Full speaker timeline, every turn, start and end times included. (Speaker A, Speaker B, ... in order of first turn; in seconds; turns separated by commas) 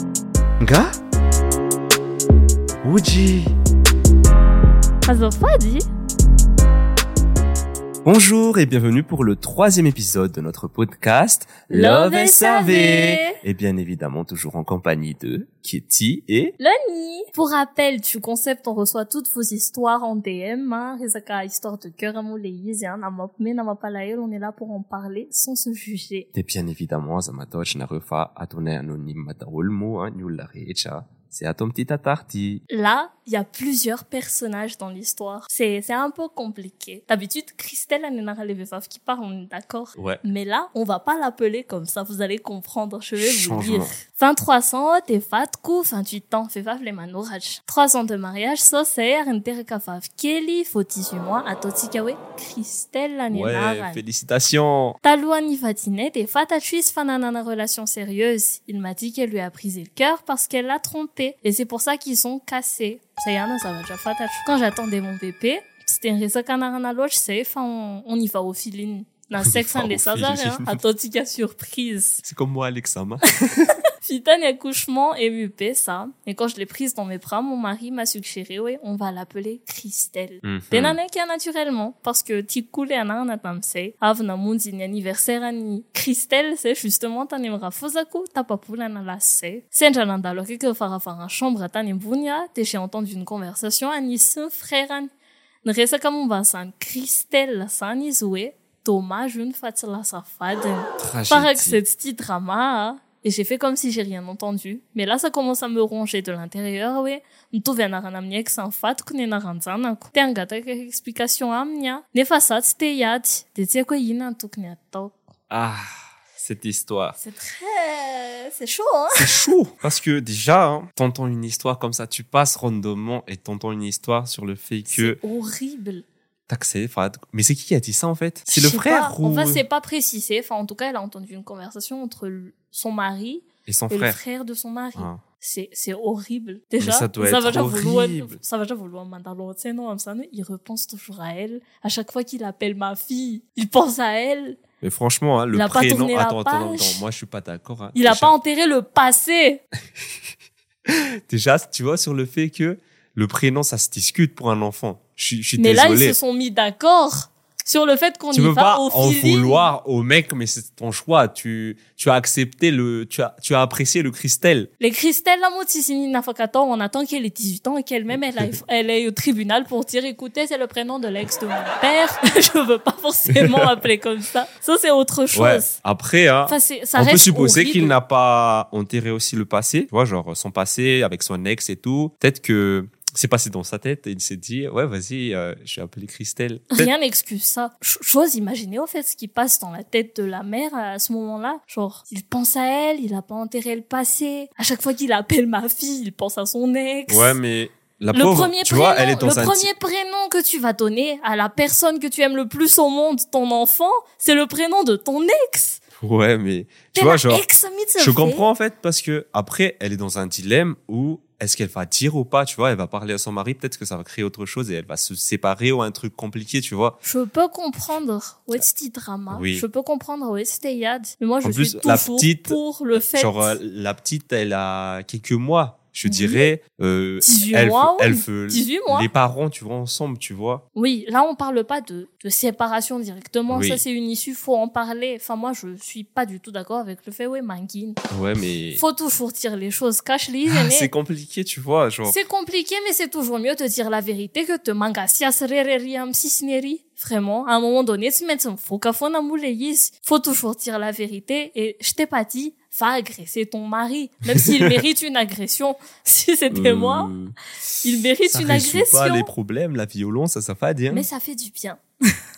Speaker A: 0.6-0.9, Speaker A: 2.8-3.5, Speaker B: 5.0-5.8, Speaker A: 8.1-16.6, Speaker B: 11.7-13.4, Speaker B: 16.6-26.3, Speaker A: 26.3-32.6, Speaker B: 32.7-54.0, Speaker A: 40.0-40.2, Speaker A: 43.2-44.0, Speaker A: 53.3-55.0, Speaker B: 55.0-72.2, Speaker A: 69.4-70.8, Speaker A: 72.2-73.7, Speaker B: 74.0-95.1, Speaker A: 80.4-81.0, Speaker B: 95.6-115.3, Speaker A: 101.0-101.8, Speaker A: 115.5-115.8, Speaker A: 116.4-117.2, Speaker B: 117.2-119.5, Speaker A: 119.1-125.2, Speaker B: 124.9-126.0, Speaker A: 126.5-129.6, Speaker B: 128.5-144.6, Speaker A: 133.7-134.2, Speaker A: 135.0-135.2, Speaker A: 136.8-138.4, Speaker A: 144.8-148.3, Speaker B: 145.5-147.0, Speaker B: 147.9-149.6, Speaker A: 150.9-156.2, Speaker B: 155.6-159.7, Speaker A: 158.3-164.7, Speaker B: 164.8-175.8, Speaker A: 173.3-173.8, Speaker A: 175.3-186.9, Speaker B: 176.5-178.0, Speaker B: 186.7-197.4, Speaker A: 197.1-199.7, Speaker B: 198.1-205.8, Speaker A: 206.0-207.4, Speaker B: 206.9-208.4, Speaker A: 208.0-217.0, Speaker B: 217.0-223.6, Speaker A: 219.3-219.7, Speaker A: 221.4-230.6, Speaker B: 226.1-226.5, Speaker B: 227.2-229.1, Speaker B: 230.8-238.0, Speaker A: 233.5-233.8, Speaker A: 238.1-238.8, Speaker B: 238.8-240.9, Speaker A: 240.4-242.2, Speaker B: 242.1-257.1, Speaker A: 254.3-254.8, Speaker A: 256.5-261.1, Speaker B: 257.8-259.3, Speaker B: 260.9-262.1